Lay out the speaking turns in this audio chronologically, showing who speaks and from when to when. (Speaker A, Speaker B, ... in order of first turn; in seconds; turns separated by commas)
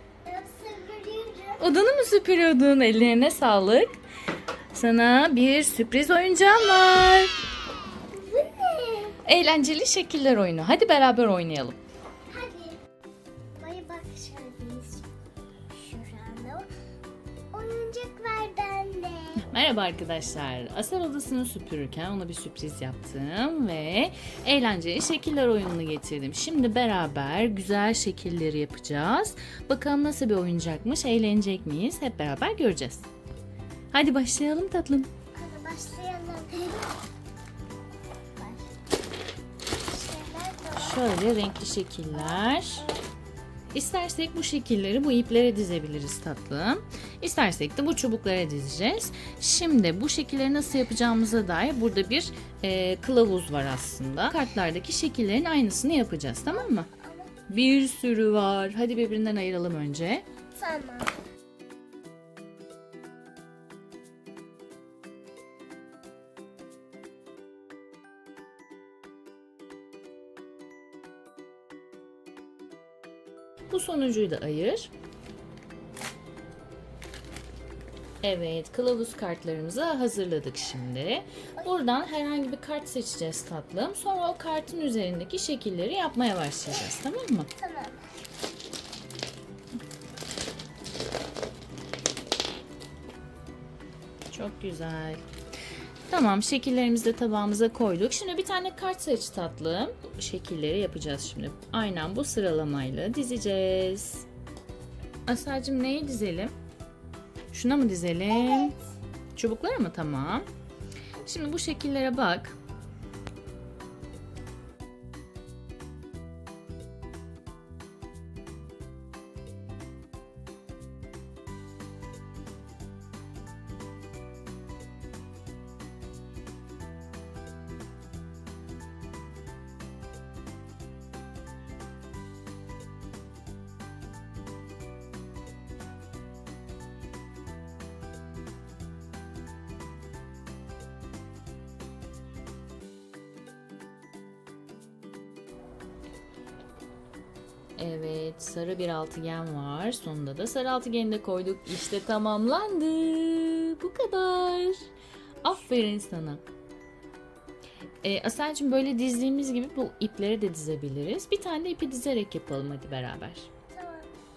Speaker A: 0.2-1.6, Speaker B: 1.6-3.9, Speaker B: 4.7-7.3, Speaker A: 8.1-9.2, Speaker B: 9.2-11.8, Speaker A: 12.3-12.8, Speaker A: 13.6-15.1, Speaker A: 15.7-16.7, Speaker A: 17.5-19.4, Speaker B: 19.4-33.0, Speaker B: 33.9-35.1, Speaker A: 35.4-37.0, Speaker A: 38.4-38.7, Speaker A: 39.9-41.1, Speaker B: 40.8-42.9, Speaker A: 42.1-43.0, Speaker B: 43.7-56.9, Speaker A: 56.5-57.3, Speaker B: 57.5-60.2, Speaker A: 60.5-61.1, Speaker B: 73.7-74.9, Speaker B: 78.2-87.5, Speaker A: 87.6-88.1, Speaker B: 94.3-95.2, Speaker B: 96.1-104.3, Speaker B: 105.2-106.5, Speaker B: 107.5-108.7, Speaker A: 108.3-108.8, Speaker B: 109.3-110.5, Speaker B: 111.2-112.5, Speaker B: 147.8-154.9, Speaker B: 155.4-156.4, Speaker B: 158.0-163.5, Speaker A: 163.7-164.1